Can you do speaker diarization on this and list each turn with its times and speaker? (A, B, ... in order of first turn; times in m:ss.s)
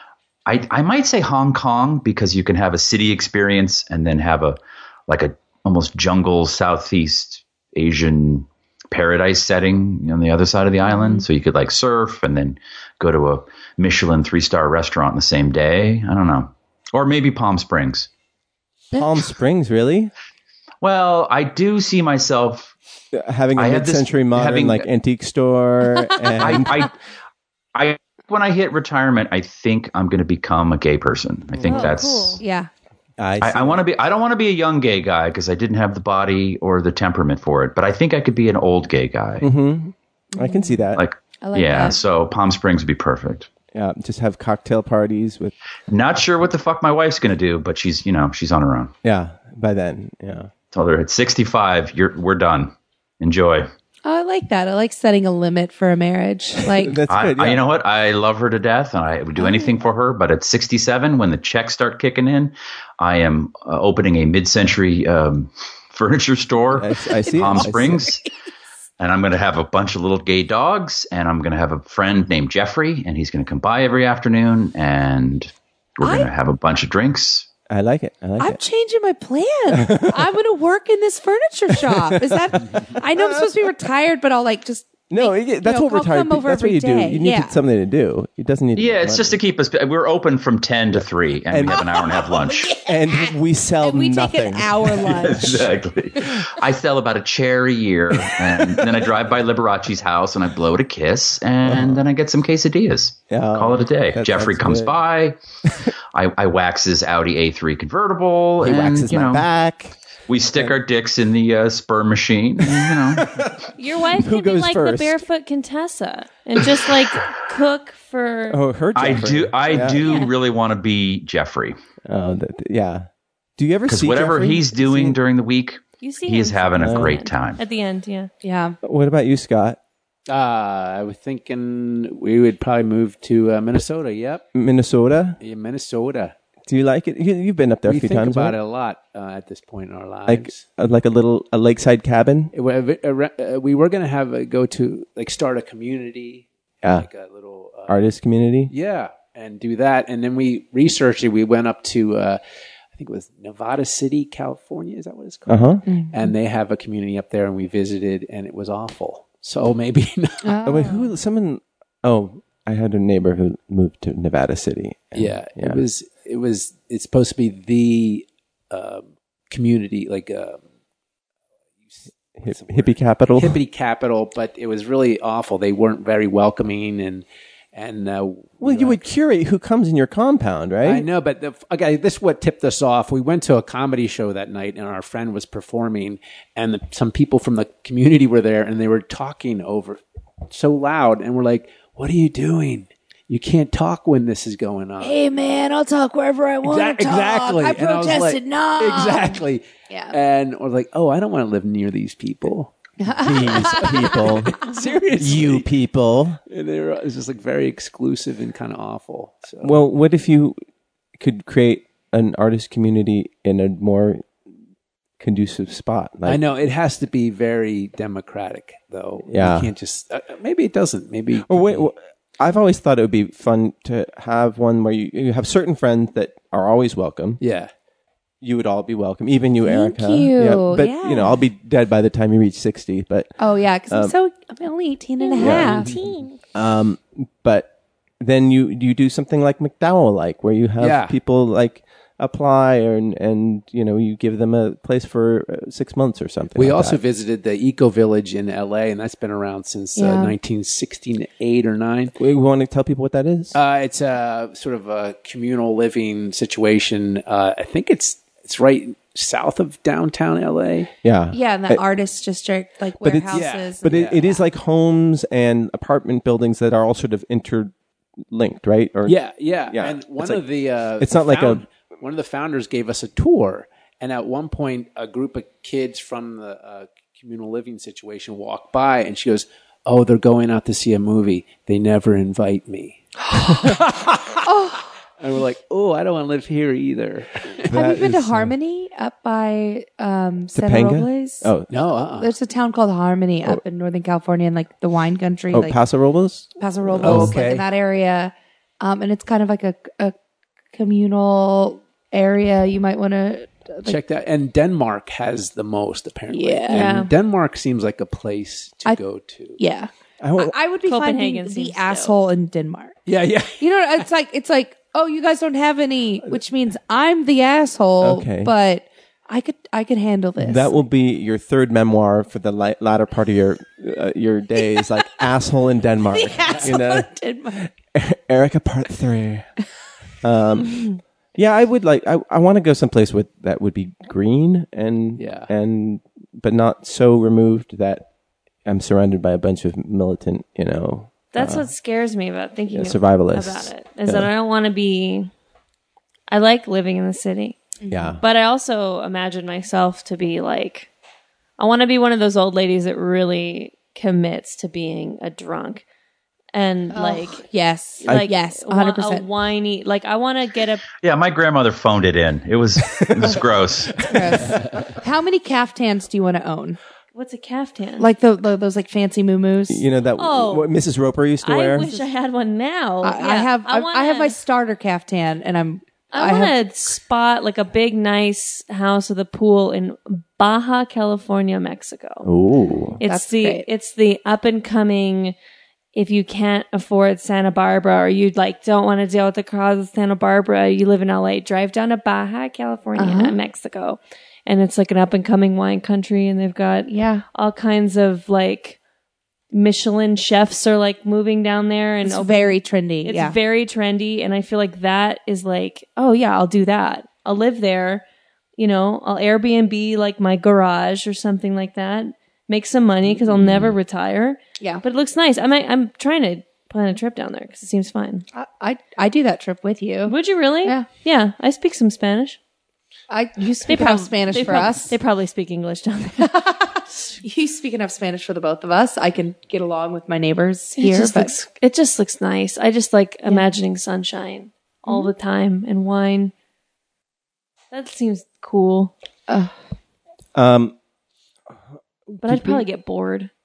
0:00.4-0:18.1 A
0:10.8-0:11.2 B
0:18.9-0:20.1 C
0:20.8-0:22.7 A
0:23.1-0:26.8 C
0:23.6-0:24.8 A
0:26.0-0:26.7 B
0:26.4-0:26.9 A
0:27.7-0:32.4 A
0:31.6-0:31.9 C
0:31.7-0:32.3 D
0:31.7-0:32.7 B
0:33.2-0:33.8 C
0:33.4-0:39.5 A
0:39.4-0:41.0 C
0:40.3-0:40.8 B
0:40.9-0:43.5 A
0:41.4-0:42.0 B
0:43.7-0:45.5 C
0:45.9-0:48.9 A
0:49.0-0:50.5 C
0:50.7-0:53.7 A
0:54.0-0:57.0 B
0:56.6-0:57.6 C
0:57.1-1:08.2 A
0:59.4-0:59.7 B
1:06.7-1:08.1 C
1:07.0-1:08.3 B
1:09.0-1:17.5 A
1:16.0-1:16.3 B
1:17.7-1:18.6 C
1:18.4-1:27.6 B
1:19.7-1:20.3 C
1:21.7-1:23.7 C
1:25.1-1:29.4 C
1:28.7-1:32.8 A
1:31.5-1:31.9 C
1:31.8-1:35.6 B
1:32.7-1:35.7 C
1:35.2-1:45.4 A
1:38.1-1:39.0 C
1:41.6-1:42.0 C
1:43.3-1:45.0 C
1:45.6-1:45.9 C
1:46.1-1:49.4 A
1:48.6-1:50.0 C
1:50.3-1:53.3 A
1:52.6-1:55.2 C
1:53.7-1:58.6 D
1:56.6-1:56.9 C
1:58.5-2:00.2 C
1:58.9-2:01.7 A
2:02.1-2:05.2 C
2:03.9-2:07.6 A
2:06.0-2:08.3 D
2:06.8-2:07.2 C
2:08.4-2:08.8 B
2:08.8-2:09.8 C
2:10.3-2:14.4 E
2:14.5-2:15.4 C
2:15.4-2:16.3 E
2:16.7-2:18.6 C
2:17.8-2:20.6 E
2:20.3-2:22.5 C
2:22.5-2:28.0 E
2:26.8-2:27.1 C
2:27.9-2:28.7 C
2:28.7-2:32.4 E
2:32.9-2:40.5 E
2:35.5-2:35.8 C
2:35.8-2:36.3 B
2:40.4-2:41.1 B
2:40.6-2:45.8 C
2:45.1-2:50.6 E
2:51.9-2:59.0 E
2:52.4-2:53.6 C
2:58.6-3:01.1 C
3:00.8-3:15.2 E
3:15.0-3:20.2 B
3:16.6-3:25.6 E
3:23.0-3:24.2 B
3:23.1-3:26.4 C
3:26.5-3:29.8 E
3:29.6-3:30.6 C
3:31.2-3:34.3 C
3:35.2-3:36.4 C
3:36.2-3:41.8 E
3:39.3-3:39.7 C
3:41.4-3:47.4 C
3:47.4-3:47.7 E
3:48.4-3:53.4 C
3:49.6-3:51.4 B
3:53.4-3:55.9 B
3:53.9-3:54.1 C
3:55.2-3:56.3 D
3:55.4-3:56.0 C
3:55.6-3:56.0 E
3:56.5-4:07.0 C
4:00.8-4:01.2 E
4:06.6-4:12.1 E
4:10.0-4:10.3 B
4:12.2-4:13.6 C
4:13.5-4:20.9 E
4:21.0-4:21.8 C
4:21.3-4:24.4 B
4:23.0-4:27.7 C
4:23.3-4:24.2 E
4:28.3-4:30.4 C
4:29.0-4:44.4 E
4:31.0-4:31.6 C
4:44.4-4:44.9 B
4:45.2-4:47.7 E
4:47.6-4:48.5 C
4:47.7-4:51.5 B
4:50.5-4:51.7 C
4:51.7-4:52.3 E
4:52.2-4:55.8 B
4:55.5-4:57.6 C
4:56.6-5:00.1 B
4:57.0-4:57.6 E
5:00.7-5:04.0 B
5:03.8-5:09.6 E
5:06.3-5:07.0 B
5:06.7-5:07.1 D
5:09.6-5:13.0 B
5:10.2-5:10.5 C
5:10.8-5:12.2 D
5:13.0-5:14.0 E
5:13.6-5:20.8 B
5:18.0-5:18.5 C
5:20.4-5:29.5 C
5:24.7-5:25.2 B
5:26.1-5:27.6 B
5:26.5-5:26.7 E
5:30.2-5:38.0 C
5:35.2-5:35.5 E
5:38.6-5:41.7 C
5:41.3-5:45.3 D
5:42.7-5:44.3 C
5:46.3-5:47.6 D
5:47.8-5:48.2 B
5:47.9-5:48.2 C
5:48.2-5:50.9 D
5:51.6-5:55.8 D
5:56.5-5:57.5 D
5:56.9-5:59.3 B
5:58.0-6:00.9 D
6:01.0-6:04.0 A
6:02.9-6:04.6 C
6:04.0-6:06.8 B
6:07.1-6:08.1 D
6:08.0-6:09.8 B
6:09.7-6:11.9 C
6:10.2-6:10.7 D
6:11.4-6:14.4 D
6:13.0-6:16.5 B
6:16.1-6:22.3 D
6:22.2-6:23.0 C
6:23.0-6:25.3 D
6:23.0-6:23.6 B
6:25.9-6:38.8 D
6:33.0-6:33.4 B
6:36.9-6:37.2 B
6:39.5-6:48.0 D
6:42.0-6:43.4 B
6:48.6-6:58.2 D
6:53.3-6:53.7 C
6:58.3-7:00.9 B
7:00.0-7:02.4 D
7:03.1-7:04.9 B
7:03.6-7:07.1 D
7:06.2-7:11.3 B
7:10.8-7:16.3 D
7:14.9-7:15.1 B
7:17.7-7:18.9 D
7:19.3-7:19.5 B
7:20.3-7:20.7 C
7:22.2-7:23.3 D
7:22.3-7:22.5 C